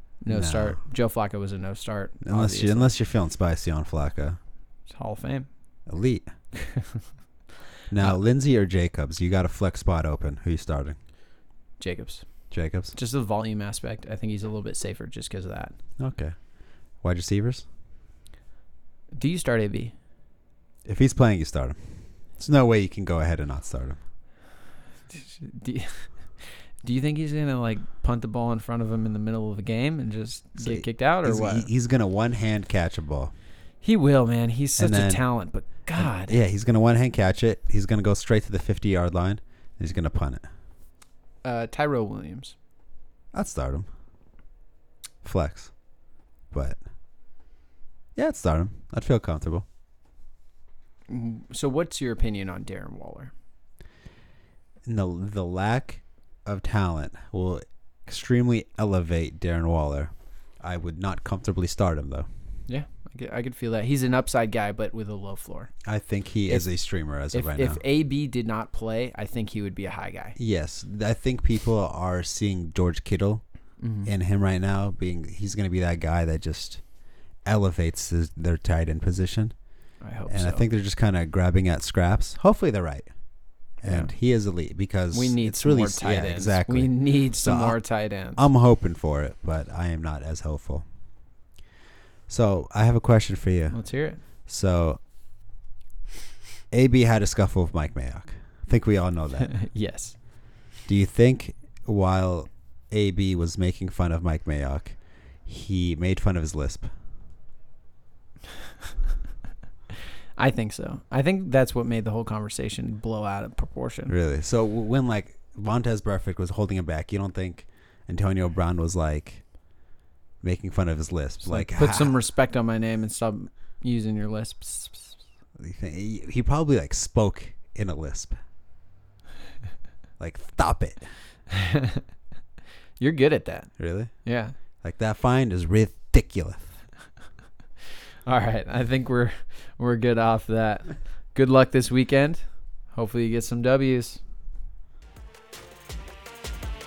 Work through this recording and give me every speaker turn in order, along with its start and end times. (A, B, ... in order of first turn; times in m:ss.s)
0:00.2-0:03.0 A
0:00.3-0:00.8 B
0:02.2-0:04.4 B
0:04.9-0:05.5 A
0:05.9-0:06.3 B
0:06.6-0:07.0 A
0:07.9-0:11.0 B
0:11.8-0:12.2 A
0:12.5-0:13.0 B
0:13.0-0:15.8 A
0:16.0-0:16.4 B
0:17.0-0:17.7 B
0:19.1-0:19.9 A
0:20.8-0:24.0 B
0:25.1-0:31.7 A
0:30.6-0:33.3 B
0:33.8-0:36.4 A
0:34.8-0:35.2 B
0:36.0-0:40.4 B
0:41.4-0:42.6 A
0:43.3-0:43.9 B
0:45.2-0:45.7 B
0:46.5-0:46.8 B
0:48.2-0:49.7 B
0:51.1-0:53.3 A
0:54.9-1:02.3 B
1:02.7-1:05.7 A
1:05.8-1:07.8 B
1:06.5-1:06.7 A
1:07.3-1:10.4 A
1:10.4-1:13.4 B
1:13.8-1:14.1 A
1:14.0-1:16.8 B
1:17.4-1:19.5 B
1:20.0-1:20.6 A
1:20.3-1:23.1 B
1:23.8-1:27.8 B
1:23.9-1:24.1 A
1:25.1-1:28.4 A
1:28.4-1:30.8 B
1:32.3-1:33.8 B
1:33.7-1:34.2 A
1:34.5-1:35.0 B
1:36.7-1:39.5 B
1:39.4-1:40.2 A
1:40.9-1:46.9 B
1:50.4-1:54.1 A
1:54.1-1:59.4 B
2:00.4-2:02.2 B
2:01.4-2:05.2 A
2:05.6-2:08.4 B
2:10.2-2:11.1 B
2:11.5-2:12.0 A
2:13.0-2:13.7 A
2:13.8-2:14.1 B
2:14.2-2:14.6 A
2:14.8-2:16.7 B
2:18.3-2:24.2 A